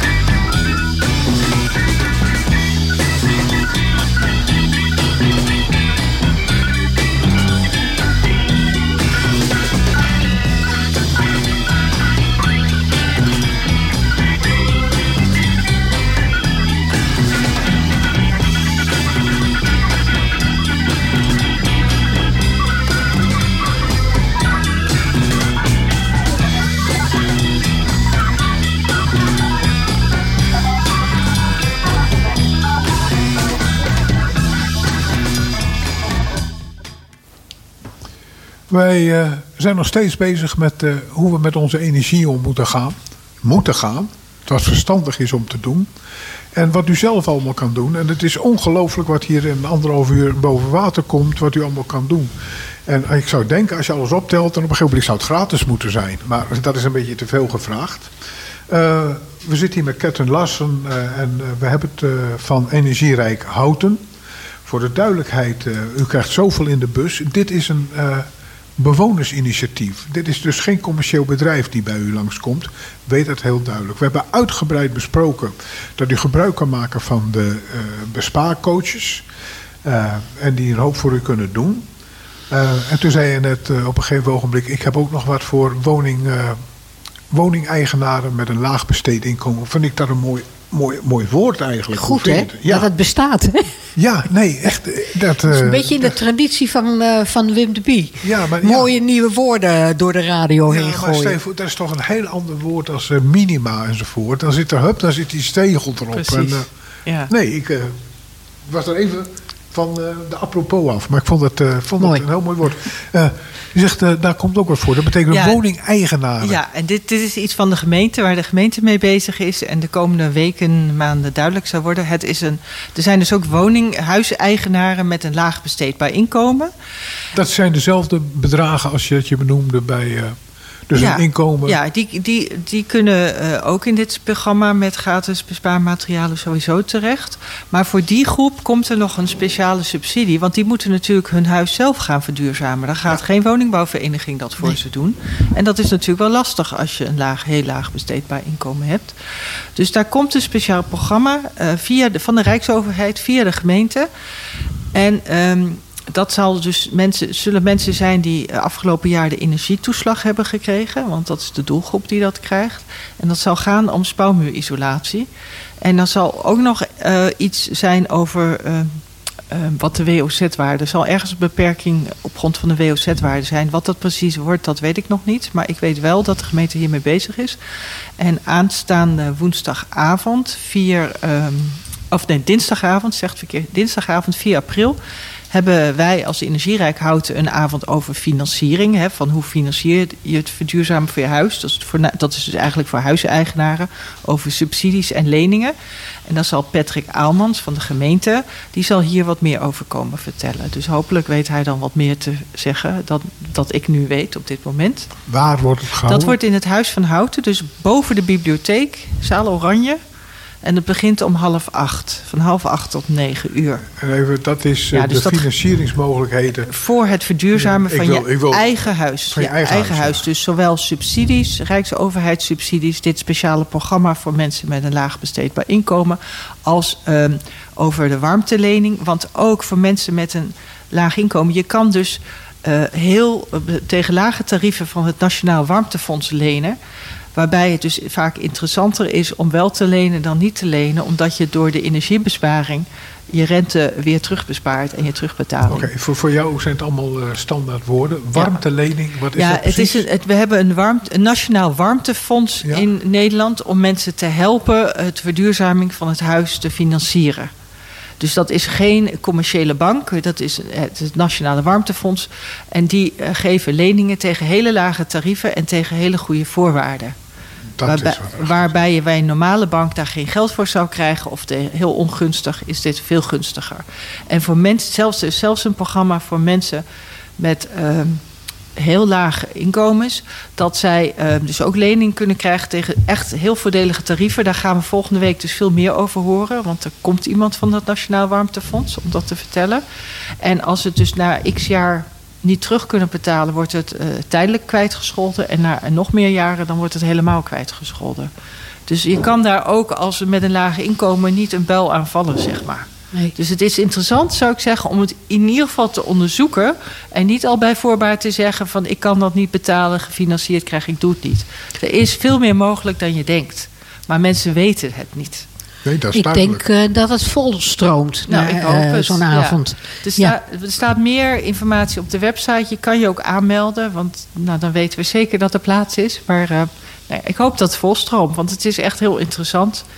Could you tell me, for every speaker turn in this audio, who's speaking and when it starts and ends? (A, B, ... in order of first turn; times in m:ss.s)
0:38.7-0:45.9 A
0:46.5-0:52.3 A
0:52.9-0:58.1 A
0:58.7-1:04.0 A
1:04.6-1:19.2 A
1:19.8-1:21.9 A
1:22.5-1:26.6 A
1:27.3-1:32.9 A
1:31.9-1:33.7 B
1:34.0-1:36.2 A
1:35.5-1:41.4 B
1:38.2-1:38.9 A
1:40.7-1:46.7 A
1:46.1-1:47.3 C
1:47.3-1:48.0 A
1:48.6-1:56.6 A
1:55.3-1:55.6 C
1:56.4-2:06.7 C
2:07.3-2:10.4 A
2:10.9-2:11.8 A
2:11.0-2:29.1 C
2:29.8-2:34.1 C
2:34.9-2:45.3 C
2:45.8-2:57.6 C
2:58.2-3:05.0 C
3:05.5-3:15.7 C
3:16.3-3:25.1 C
3:25.3-3:26.4 A
3:26.1-3:30.0 C
3:30.6-3:33.9 C
3:33.9-3:36.7 A
3:34.9-3:35.5 C
3:36.7-3:56.8 C
3:37.6-3:38.7 A
3:39.3-3:40.2 A
3:57.4-4:05.9 C
4:05.6-4:10.1 A
4:09.4-4:17.5 C
4:18.2-4:27.1 C
4:27.8-4:28.8 A
4:27.8-4:36.8 C
4:37.4-4:38.2 C
4:38.8-4:49.8 C
4:50.4-4:58.3 C
4:58.9-5:15.5 C
5:15.8-5:16.6 A
5:16.1-5:20.4 B
5:18.3-5:29.8 C